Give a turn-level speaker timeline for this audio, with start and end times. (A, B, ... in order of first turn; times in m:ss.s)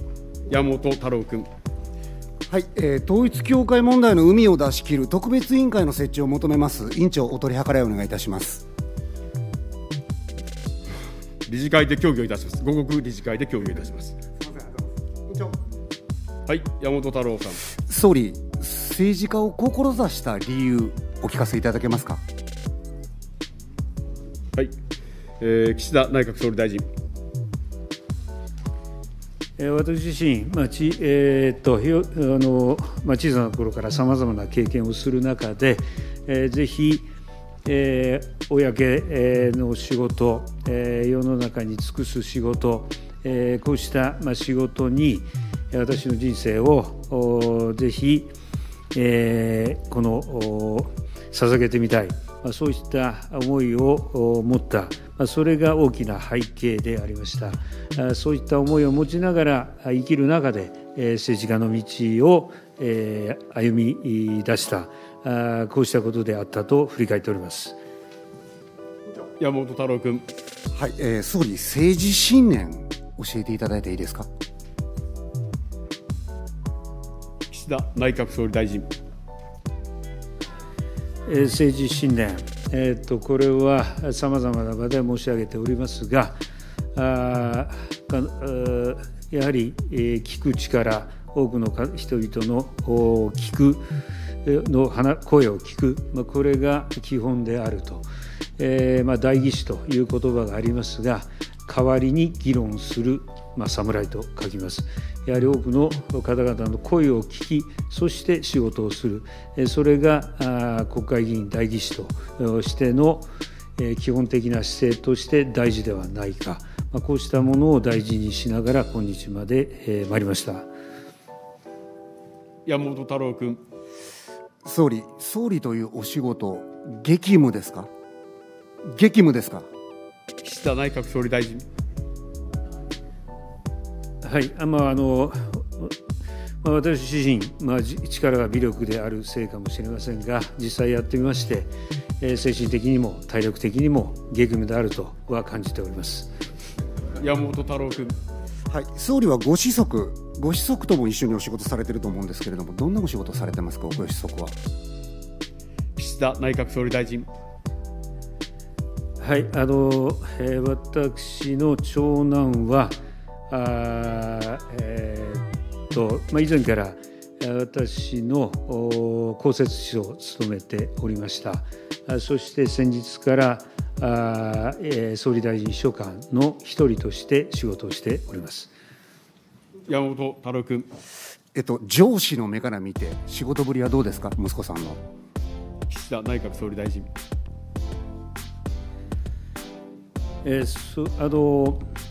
0:00.5-0:01.5 A
0:02.5-0:08.6 B
0:11.5-0:14.2 A
0:14.4-0:15.6 B
0:16.5-0:17.6 A
0:17.8-0:22.2 B
0:25.4-0:26.8 A
0:29.6-0:37.1 C
0:37.6-0:48.3 C
0:48.9-1:07.8 C
1:09.4-1:10.2 A
1:10.8-1:14.3 B
1:17.5-1:18.9 A
1:21.3-1:26.4 C
1:27.0-1:33.8 C
1:34.4-1:38.1 C
1:38.6-1:53.3 C
1:53.8-2:00.7 C
2:02.7-2:03.6 A
2:04.6-2:07.9 B
2:08.8-2:09.7 B
2:10.4-2:11.6 A
2:14.2-2:16.0 C
2:16.6-2:26.3 C
2:27.2-2:28.2 A
2:28.7-2:34.6 B
2:36.0-2:37.3 A
2:39.2-2:43.0 C
2:43.5-2:58.7 C
2:59.9-3:00.9 A
3:01.6-3:05.0 B
3:05.9-3:07.1 A
3:10.4-3:11.8 C